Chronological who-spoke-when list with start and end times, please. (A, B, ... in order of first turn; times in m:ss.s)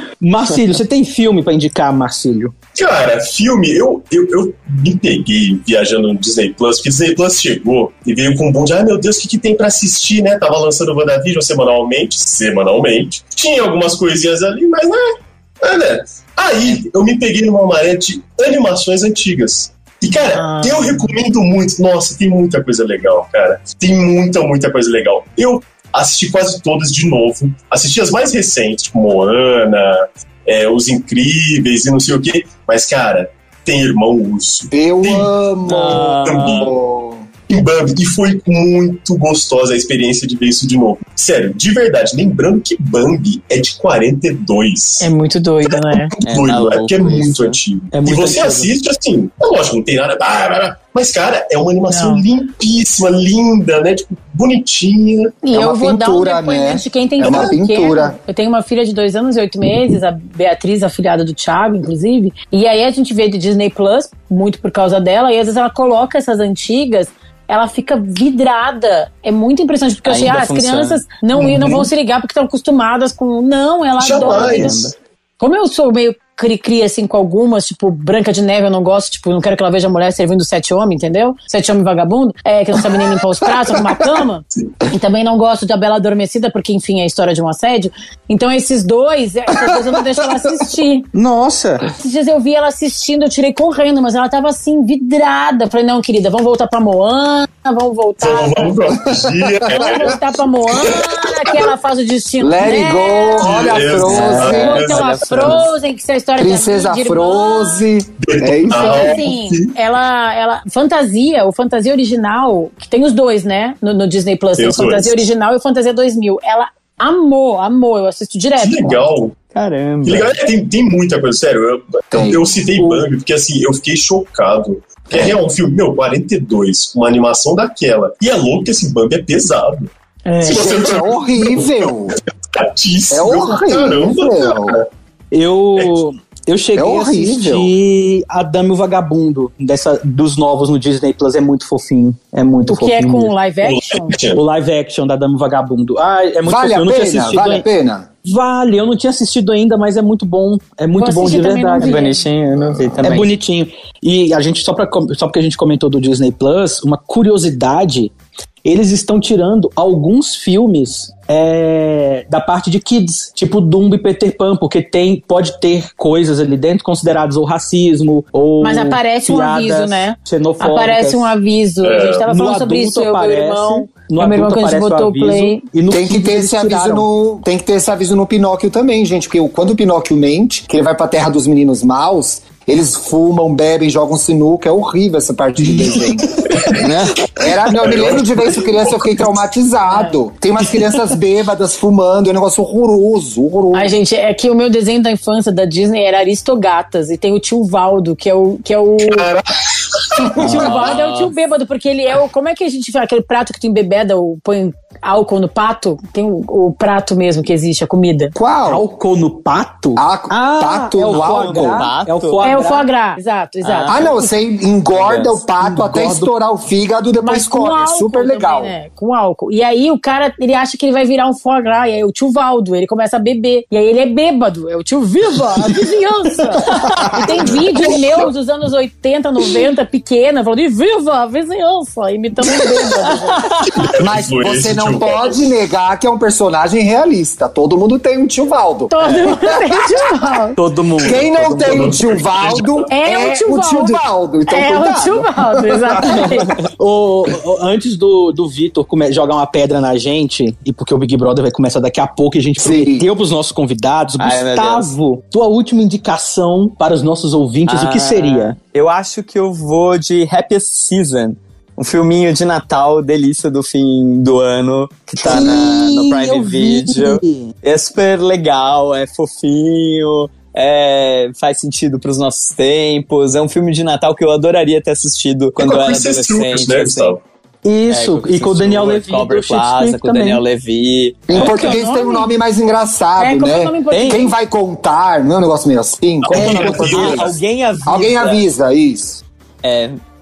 0:00.2-0:02.5 A
0:02.8-0:35.3 B
0:20.2-0:21.0 C
0:34.7-0:37.3 D
0:35.7-0:36.7 E
0:36.1-0:36.7 B
0:37.5-0:45.1 B
0:45.0-0:46.1 C
0:45.7-0:55.4 B
0:46.3-0:47.6 E
0:47.9-0:48.7 A
0:51.9-0:52.2 C
0:55.4-1:14.9 C
0:55.5-0:58.2 D
0:57.2-0:57.5 B
1:10.1-1:11.0 E
1:11.4-1:11.9 B
1:14.0-1:14.9 B
1:14.1-1:14.8 E
1:15.4-1:31.1 C
1:29.6-1:29.9 D
1:31.1-1:31.9 A
1:32.0-1:38.8 C
1:38.2-1:40.2 B
1:39.0-1:40.2 D
1:39.7-1:43.6 C
1:42.4-1:44.8 D
1:43.4-1:45.6 B
1:44.0-1:45.7 E
1:44.4-1:47.8 C
1:46.4-1:49.2 D
1:48.2-1:49.7 B
1:48.7-1:59.1 C
1:54.6-1:55.3 B
1:58.5-1:59.4 B
1:59.6-2:00.3 E
2:00.0-2:09.9 B
2:02.1-2:02.7 D
2:10.3-2:10.8 C
2:10.4-2:14.8 B
2:10.4-2:12.2 D
2:13.1-2:14.8 D
2:15.3-2:23.3 A
2:16.8-2:17.7 D
2:22.7-2:24.2 C
2:23.6-2:24.4 B
2:24.4-2:27.7 A
2:26.4-2:28.1 D
2:28.2-2:32.0 A
2:31.0-2:32.2 C
2:31.8-2:33.3 E
2:32.8-2:33.1 D
2:33.0-2:38.1 A
2:38.6-2:51.3 A
2:48.6-2:55.6 C
2:51.8-2:52.3 B
2:52.3-2:57.1 A
2:55.9-3:06.6 D
3:06.8-3:07.3 E
3:07.4-3:13.9 D
3:07.8-3:09.3 B
3:09.9-3:10.2 C
3:13.7-3:19.3 C
3:19.0-3:20.3 B
3:20.4-3:28.3 C
3:20.4-3:21.4 E
3:28.4-3:28.8 D
3:28.7-3:32.9 A
3:30.0-3:31.9 D
3:31.1-3:32.4 E
3:32.4-3:34.3 C
3:33.6-3:34.2 E
3:33.9-3:38.8 D
3:34.9-3:35.4 E
3:35.6-3:36.3 A
3:37.2-3:53.5 C
3:46.8-3:47.2 E
3:47.8-3:48.3 B
3:53.8-3:55.4 B
3:54.0-4:00.0 D
3:58.9-4:00.6 C
4:00.6-4:02.0 A
4:01.0-4:06.3 D
4:01.6-4:02.9 B
4:02.9-4:06.6 C
4:06.8-4:18.6 A
4:12.6-4:13.1 D
4:14.2-4:14.9 E
4:17.7-4:37.1 E
4:25.2-4:27.5 A
4:25.2-4:25.6 D
4:35.6-4:37.2 B
4:37.6-4:40.4 A
4:37.9-4:41.8 E
4:41.3-4:49.2 D
4:41.3-4:42.3 C
4:43.2-4:44.3 C
4:43.9-4:44.2 E
4:46.2-4:47.4 B
4:46.3-4:48.4 E
4:49.6-4:50.0 E